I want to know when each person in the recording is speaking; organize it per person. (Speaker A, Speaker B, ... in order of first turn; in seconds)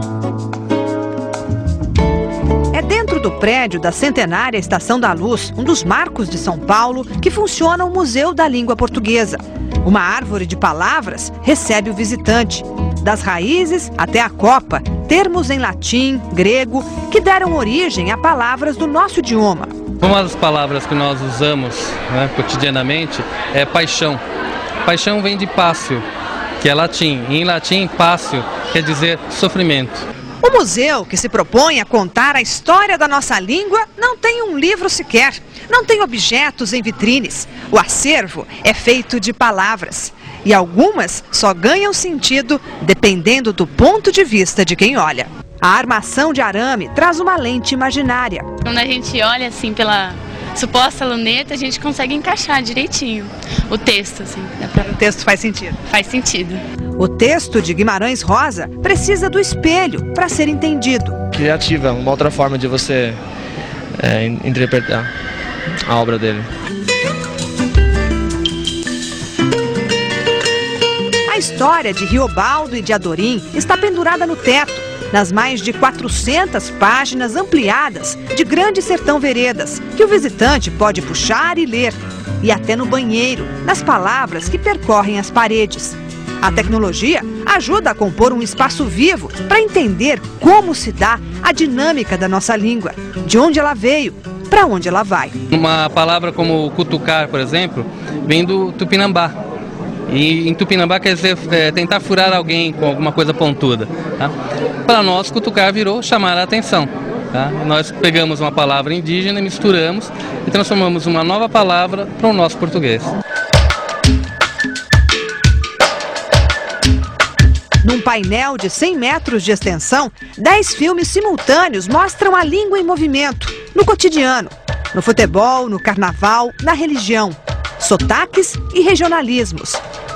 Speaker A: 2.7-19.7, 30.4-48.5, 54.9-55.8, 57.0-61.2, 71.3-95.3, 117.8-129.8
Speaker B: 20.0-24.2, 24.8-26.0, 26.6-30.0, 95.5-99.3, 100.1-104.3, 104.8-113.1
Speaker C: 48.6-55.0, 55.8-56.6
Speaker D: 61.3-63.2, 64.0-65.1, 65.8-66.5